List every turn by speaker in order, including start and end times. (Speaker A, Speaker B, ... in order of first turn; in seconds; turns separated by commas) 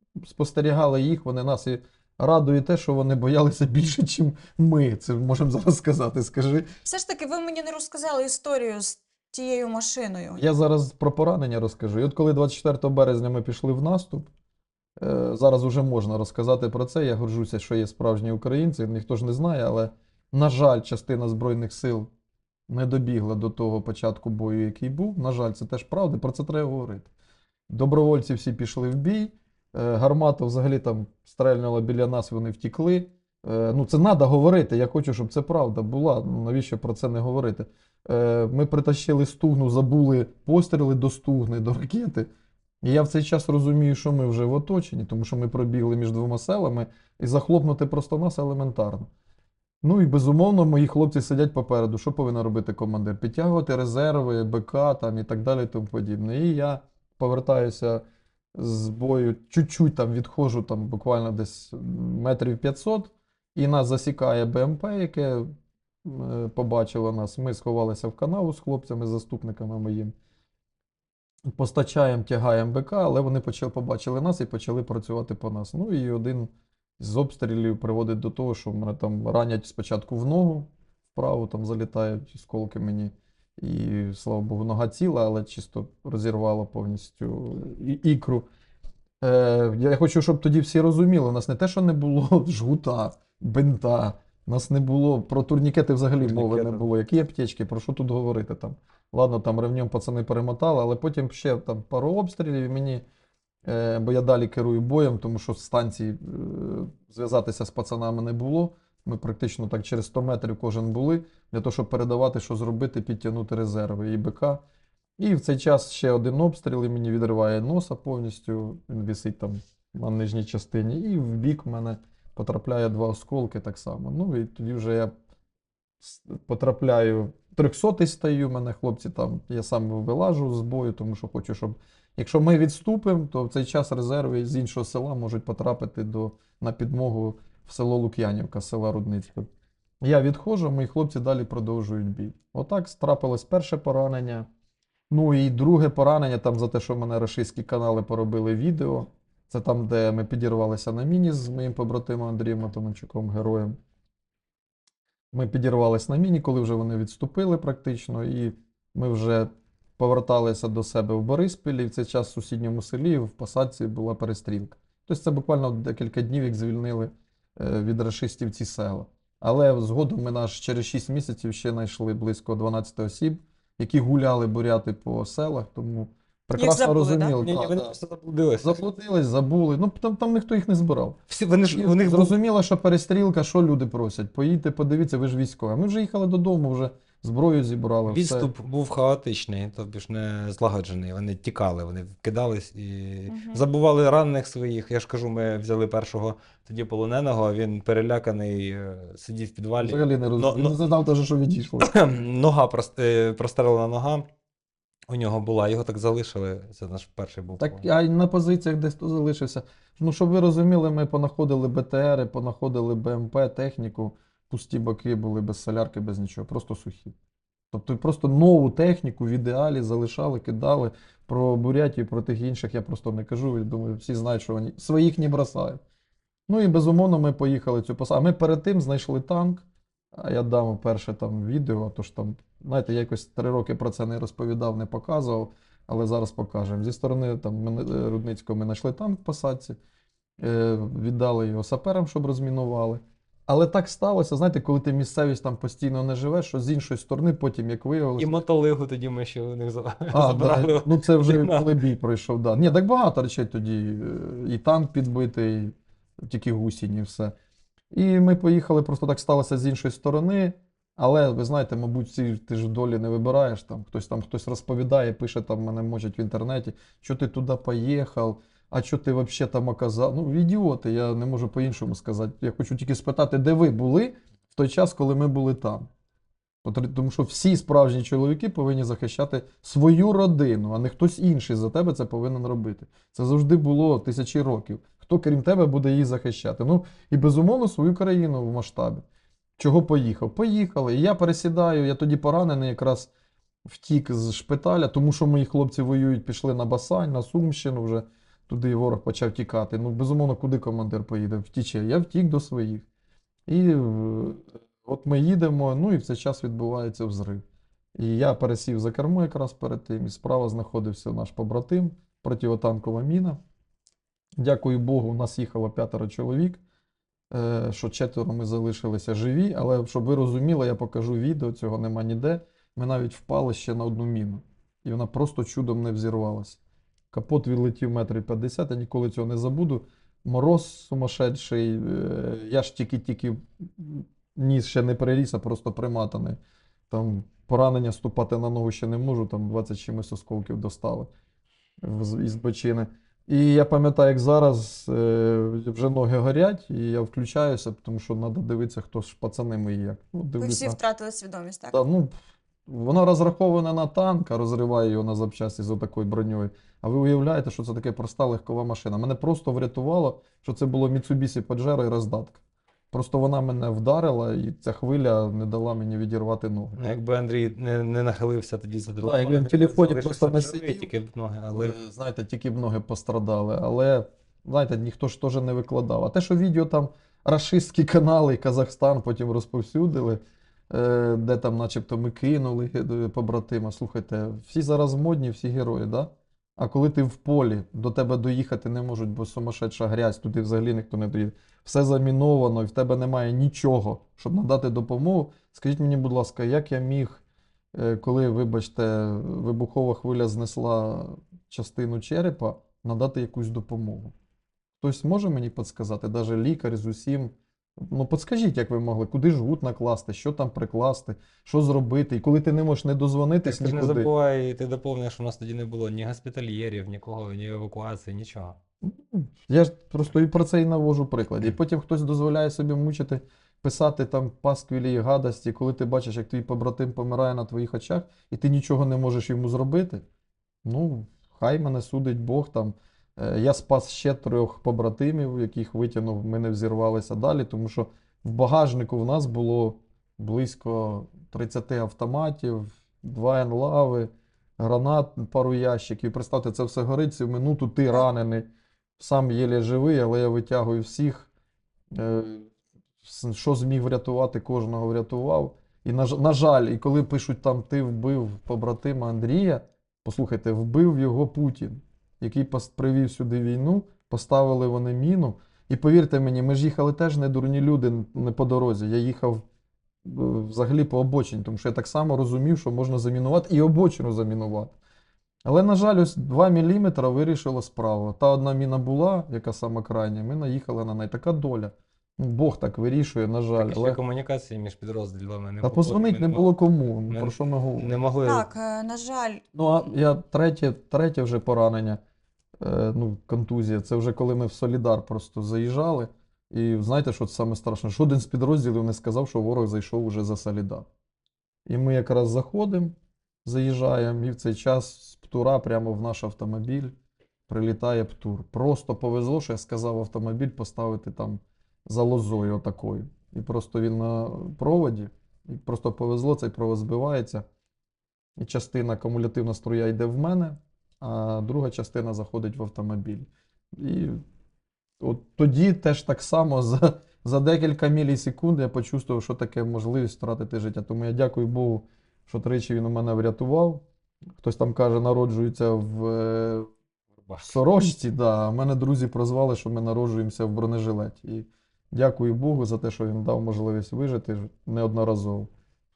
Speaker A: 0.2-6.7, Speaker B: 6.8-10.4, Speaker A: 10.4-14.3, Speaker A: 15.0-22.1, Speaker A: 22.7-27.1, Speaker A: 27.7-42.3, Speaker A: 42.8-49.1, Speaker A: 49.8-58.0, Speaker A: 58.5-65.5, Speaker A: 66.0-70.1, Speaker A: 71.5-88.5, Speaker A: 89.2-103.0, Speaker C: 96.2-96.9, Speaker A: 103.7-114.6, Speaker A: 115.2-125.1, Speaker A: 126.0-139.5, Speaker A: 140.0-144.5, Speaker A: 145.1-153.8, Speaker A: 155.3-178.0, Speaker B: 176.6-177.3, Speaker C: 177.4-178.8, Speaker A: 178.6-181.2, Speaker C: 181.3-182.3, Speaker A: 181.7-188.5, Speaker C: 188.1-200.8, Speaker B: 193.3-193.6, Speaker A: 199.8-201.9, Speaker C: 201.8-204.2, Speaker C: 205.1-207.8, Speaker A: 207.6-217.2, Speaker A: 217.7-225.8, Speaker A: 226.5-239.8, Speaker A: 240.4-248.4, Speaker C: 248.2-251.7, Speaker A: 250.1-257.3, Speaker A: 257.9-275.9, Speaker A: 276.6-289.1, Speaker A: 289.6-293.1, Speaker A: 293.7-302.9, Speaker A: 303.5-307.4, Speaker A: 308.0-313.4, Speaker A: 314.4-316.6, Speaker A: 317.3-326.6, Speaker A: 327.1-336.4, Speaker A: 336.9-341.1, Speaker A: 341.8-350.8, Speaker B: 350.4-351.8, Speaker A: 351.7-352.1, Speaker A: 352.7-362.4, Speaker A: 362.9-366.8, Speaker C: 366.8-371.8, Speaker A: 369.0-370.9, Speaker A: 371.6-397.2, Speaker A: 397.7-404.1, Speaker A: 404.8-414.1, Speaker C: 413.4-418.6, Speaker A: 418.8-430.0, Speaker A: 430.6-448.5, Speaker A: 449.0-451.3, Speaker A: 451.9-452.5, Speaker A: 453.0-469.4, Speaker A: 470.0-474.8, Speaker A: 475.5-484.0, Speaker C: 483.6-486.4, Speaker A: 485.6-487.9, Speaker C: 487.1-488.5, Speaker B: 488.2-489.4, Speaker A: 489.5-492.0, Speaker A: 492.6-500.9, Speaker A: 501.7-502.9, Speaker A: 503.4-506.9, Speaker A: 507.5-517.5, Speaker A: 518.4-524.2, Speaker A: 525.0-533.8, Speaker A: 534.4-536.7, Speaker C: 537.3-537.5, Speaker A: 537.4-545.5